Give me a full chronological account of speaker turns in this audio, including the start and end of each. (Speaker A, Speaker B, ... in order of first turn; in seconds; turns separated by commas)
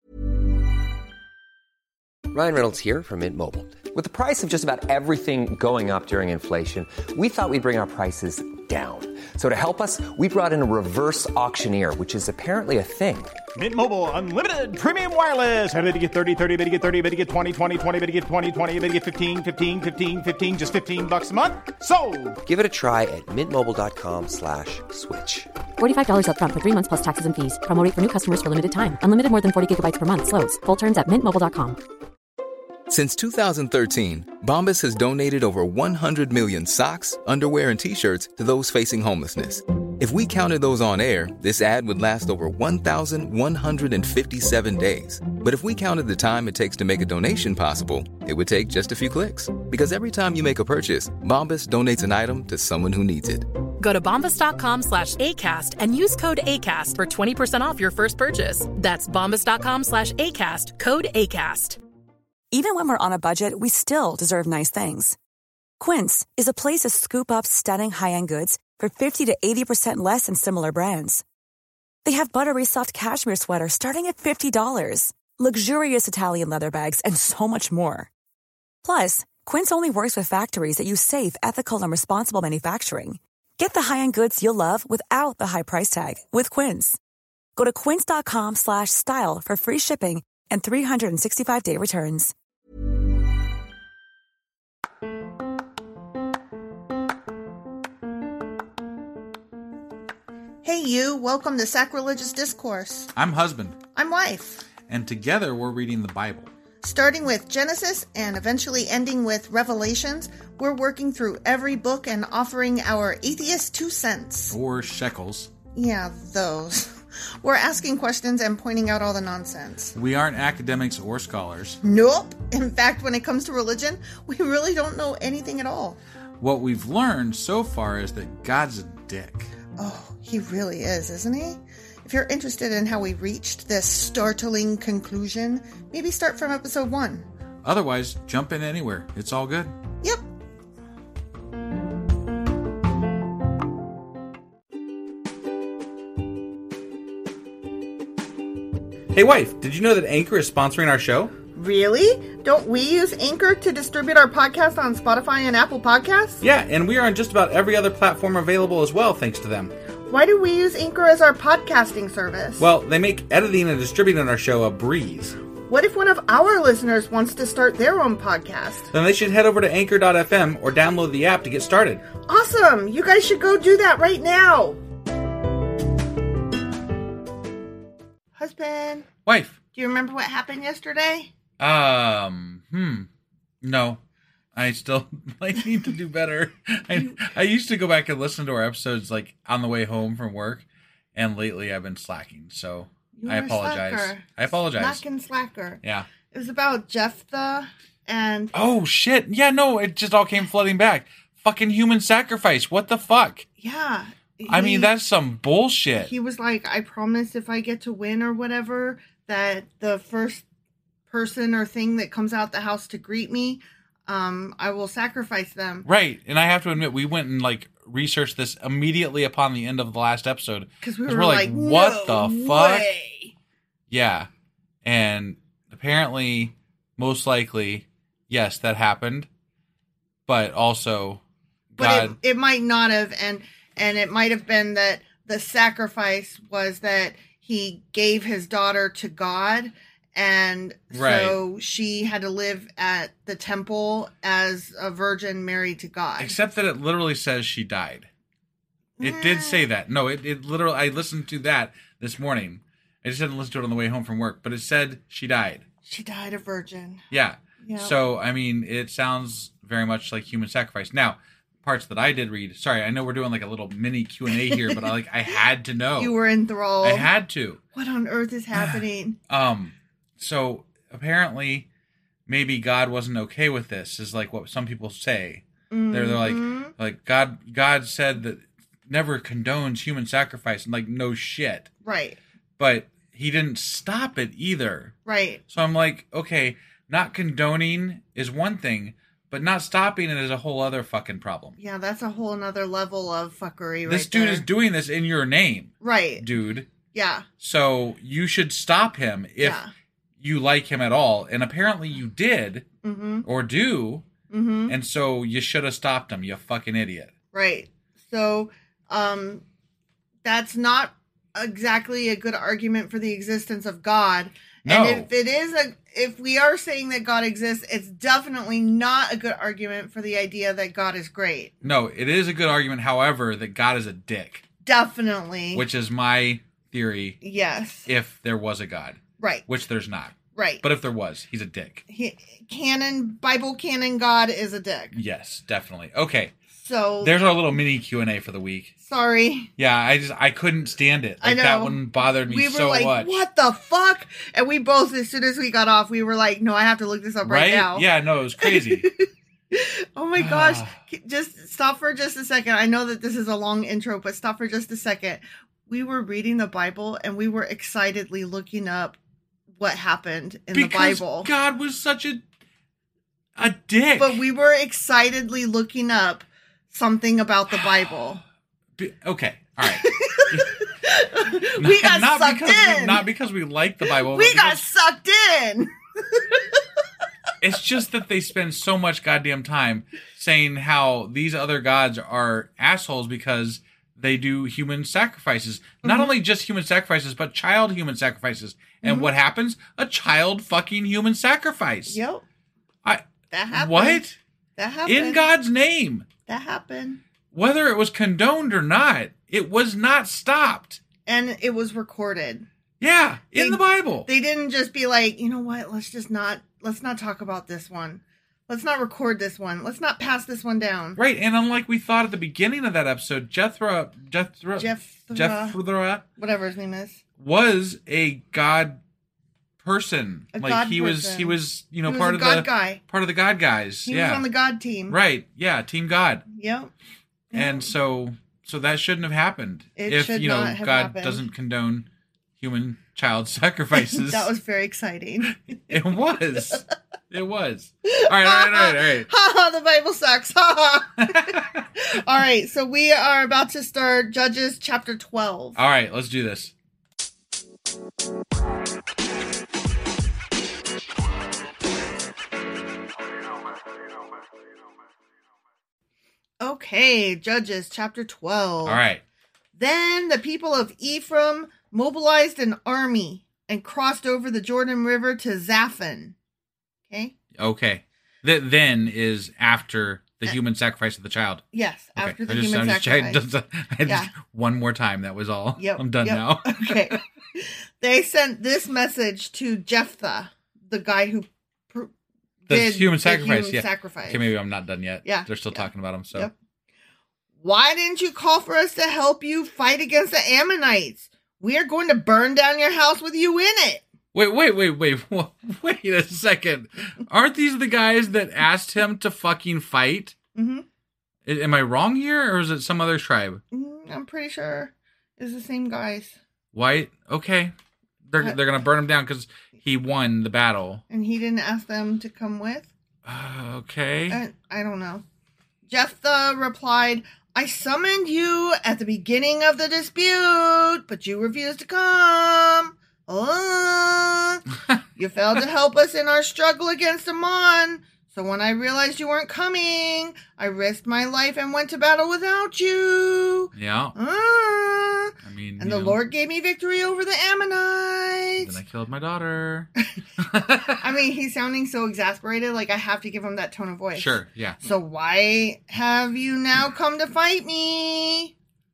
Speaker A: 2.3-13.4, Speaker B: 13.6-22.4, Speaker A: 22.4-25.5, Speaker C: 25.8-31.8, Speaker D: 32.9-53.5, Speaker E: 53.8-61.8, Speaker F: 62.5-65.2, Speaker F: 65.8-71.2, Speaker F: 72.0-78.1, Speaker F: 78.8-87.0, Speaker F: 87.6-92.3, Speaker G: 100.6-103.1, Speaker H: 103.2-103.8, Speaker G: 104.0-104.7, Speaker H: 104.9-106.5, Speaker G: 106.8-114.6, Speaker H: 114.5-115.5, Speaker G: 115.8-120.0, Speaker H: 120.0-121.8, Speaker G: 121.8-126.0, Speaker H: 126.4-129.5, Speaker G: 129.8-137.3, Speaker H: 137.6-139.7, Speaker H: 149.1-151.3, Speaker G: 151.5-156.4, Speaker H: 156.4-159.7, Speaker G: 160.1-162.7, Speaker H: 162.6-165.4, Speaker G: 165.7-168.9, Speaker H: 168.9-172.0, Speaker G: 172.2-174.8, Speaker G: 178.4-179.1, Speaker H: 179.3-179.6, Speaker G: 179.8-181.3, Speaker H: 181.6-183.1, Speaker H: 183.6-184.0, Speaker H: 184.6-190.6, Speaker G: 186.9-187.2, Speaker H: 191.2-195.0, Speaker G: 193.2-198.6, Speaker H: 198.5-203.5, Speaker G: 203.6-204.9, Speaker H: 204.5-206.1, Speaker G: 206.0-210.4, Speaker G: 211.1-215.9, Speaker H: 215.8-222.9, Speaker G: 220.8-223.3, Speaker H: 223.9-224.3, Speaker H: 224.8-229.3, Speaker H: 230.3-231.2, Speaker H: 231.7-232.2, Speaker G: 231.8-246.4, Speaker H: 240.9-241.4, Speaker H: 246.2-248.1, Speaker G: 249.0-249.6, Speaker H: 249.0-255.7, Speaker G: 255.8-257.0, Speaker H: 257.1-266.1, Speaker G: 257.6-257.9, Speaker G: 264.5-264.8, Speaker G: 266.0-267.1, Speaker H: 266.8-267.6, Speaker G: 267.8-269.2, Speaker H: 268.5-271.7, Speaker H: 272.3-281.7, Speaker G: 275.7-276.7, Speaker G: 281.8-282.2, Speaker H: 282.6-285.0, Speaker G: 285.1-285.4, Speaker H: 285.5-291.6, Speaker G: 291.6-294.5, Speaker H: 293.9-296.7, Speaker G: 295.8-296.2, Speaker G: 296.9-297.3, Speaker H: 297.4-299.6, Speaker G: 299.4-299.7, Speaker H: 300.2-302.7, Speaker G: 302.8-303.3, Speaker H: 303.2-304.1, Speaker G: 304.3-304.8, Speaker H: 304.7-307.1, Speaker G: 307.3-309.4, Speaker G: 310.2-321.5, Speaker H: 314.6-315.1, Speaker H: 321.6-324.4, Speaker G: 324.6-325.6, Speaker H: 325.5-327.2, Speaker G: 327.2-327.9, Speaker H: 327.9-331.8, Speaker G: 329.2-329.4, Speaker G: 330.4-330.6, Speaker G: 331.9-335.0, Speaker H: 334.9-336.3, Speaker G: 336.6-337.4, Speaker H: 337.0-338.7, Speaker G: 338.9-339.5, Speaker H: 339.6-343.2, Speaker G: 341.2-347.9, Speaker H: 347.2-348.9, Speaker G: 348.4-359.0, Speaker H: 350.2-350.8, Speaker G: 359.6-361.3, Speaker H: 360.5-362.2, Speaker H: 363.4-364.2, Speaker G: 364.0-368.2, Speaker H: 367.5-367.9, Speaker H: 368.8-370.6, Speaker G: 369.6-373.1, Speaker H: 371.6-374.6, Speaker G: 373.9-376.4, Speaker H: 377.4-392.0, Speaker G: 385.8-386.1, Speaker G: 388.8-389.1, Speaker G: 391.9-392.2, Speaker H: 392.9-394.2, Speaker G: 393.3-394.0, Speaker G: 394.6-395.2, Speaker H: 394.9-396.1, Speaker G: 396.3-397.0, Speaker H: 397.3-400.8, Speaker G: 401.1-402.5, Speaker H: 402.8-404.1, Speaker G: 403.4-411.0, Speaker H: 411.0-416.0, Speaker G: 414.6-415.6, Speaker G: 416.2-417.0, Speaker H: 417.2-418.8, Speaker H: 419.6-424.2, Speaker G: 420.3-422.8, Speaker G: 423.9-425.0, Speaker H: 424.9-426.3, Speaker G: 426.3-426.7, Speaker G: 427.3-427.7, Speaker H: 427.3-431.9, Speaker G: 429.8-431.2, Speaker H: 432.4-434.3, Speaker G: 433.7-435.8, Speaker H: 435.7-439.1, Speaker G: 437.9-445.6, Speaker H: 441.0-441.4, Speaker H: 445.6-446.5, Speaker G: 456.4-458.8, Speaker H: 458.6-459.0, Speaker G: 459.6-466.1, Speaker G: 466.9-467.1, Speaker H: 467.4-471.4, Speaker G: 471.5-473.2, Speaker H: 472.0-477.0, Speaker G: 473.9-474.1, Speaker G: 475.6-481.9, Speaker G: 482.5-484.3, Speaker H: 482.5-486.3, Speaker G: 485.1-486.3, Speaker G: 487.4-493.8, Speaker H: 494.1-500.2, Speaker G: 500.4-500.7, Speaker H: 501.3-503.4, Speaker G: 503.5-506.2, Speaker H: 506.5-507.5, Speaker H: 508.1-510.8, Speaker G: 510.9-512.7, Speaker H: 513.0-514.2, Speaker G: 514.1-515.0, Speaker G: 515.7-524.5, Speaker G: 525.0-538.6, Speaker H: 533.5-534.0, Speaker H: 535.2-536.0, Speaker H: 538.4-540.8, Speaker G: 540.7-548.3, Speaker H: 543.9-544.6